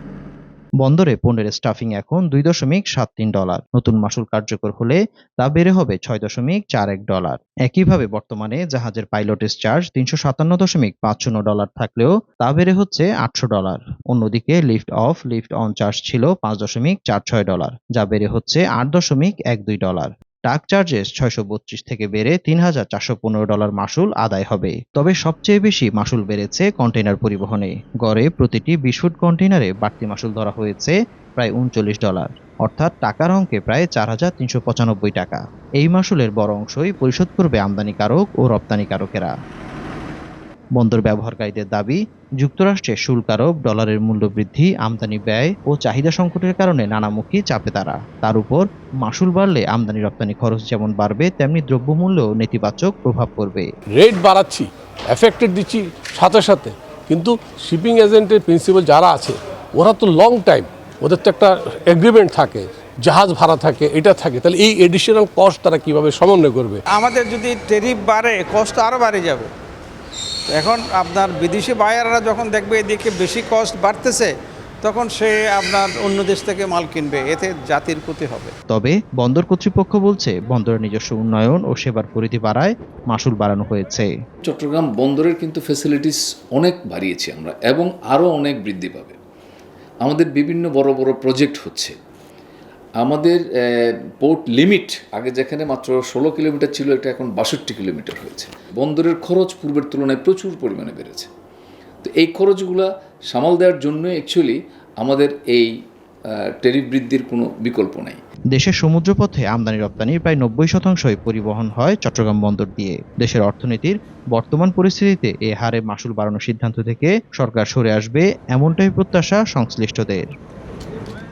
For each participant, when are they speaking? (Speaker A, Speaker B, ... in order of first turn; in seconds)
Speaker A: 0.8-39.3, 40.8-53.7, 78.7-84.1, 108.5-120.2
Speaker B: 54.0-66.8
Speaker C: 66.9-69.5, 70.5-78.5
Speaker D: 84.5-89.2, 90.0-91.9, 93.0-101.3, 102.0-105.7, 106.6-108.2